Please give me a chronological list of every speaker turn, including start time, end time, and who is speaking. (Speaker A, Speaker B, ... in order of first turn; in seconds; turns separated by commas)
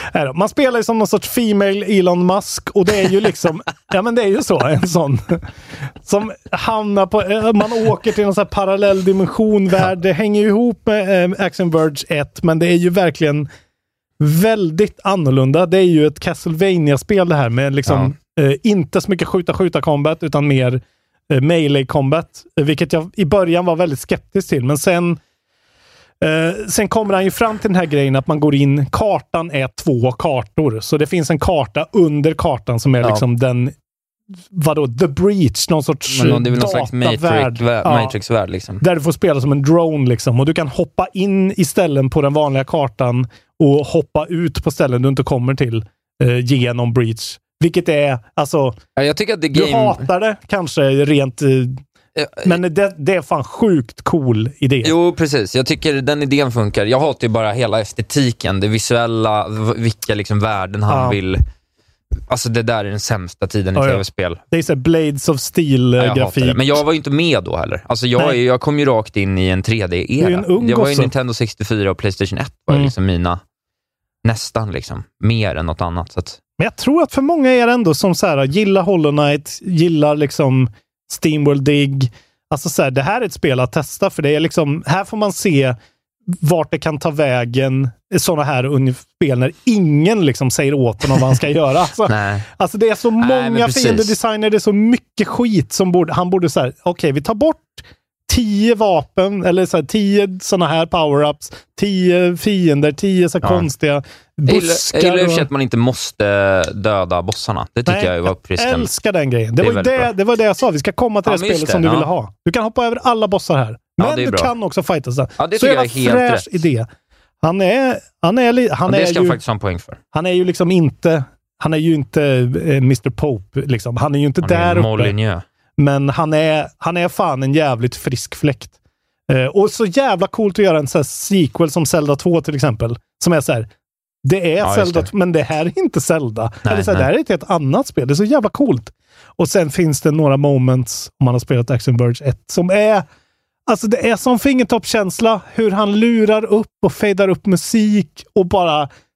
Speaker A: 0.1-5.5, Speaker A: 6.0-13.5, Speaker A: 14.2-25.2, Speaker B: 17.9-18.1, Speaker A: 26.2-33.7, Speaker A: 34.5-38.1, Speaker B: 36.1-38.8, Speaker A: 38.8-48.8, Speaker B: 49.0-50.1, Speaker A: 49.5-51.8, Speaker B: 52.2-52.6, Speaker A: 52.4-55.0, Speaker B: 54.8-61.4, Speaker A: 60.9-61.2, Speaker B: 62.3-64.4, Speaker A: 63.8-66.8, Speaker B: 66.0-73.4, Speaker A: 70.2-71.1, Speaker B: 74.2-76.4, Speaker A: 76.6-85.8, Speaker A: 86.3-105.5, Speaker B: 92.1-92.5, Speaker B: 93.2-94.2, Speaker B: 103.4-103.7, Speaker B: 104.5-108.9, Speaker A: 107.9-116.9, Speaker B: 109.6-110.1, Speaker B: 111.3-112.1, Speaker B: 114.0-114.5, Speaker B: 115.4-116.6, Speaker A: 117.4-119.4, Speaker B: 118.9-120.0, Speaker A: 120.1-125.2, Speaker B: 124.4-125.5, Speaker A: 125.8-128.7, Speaker A: 129.3-133.7, Speaker A: 134.2-143.1, Speaker B: 134.6-135.1, Speaker B: 136.7-137.1, Speaker A: 143.7-148.9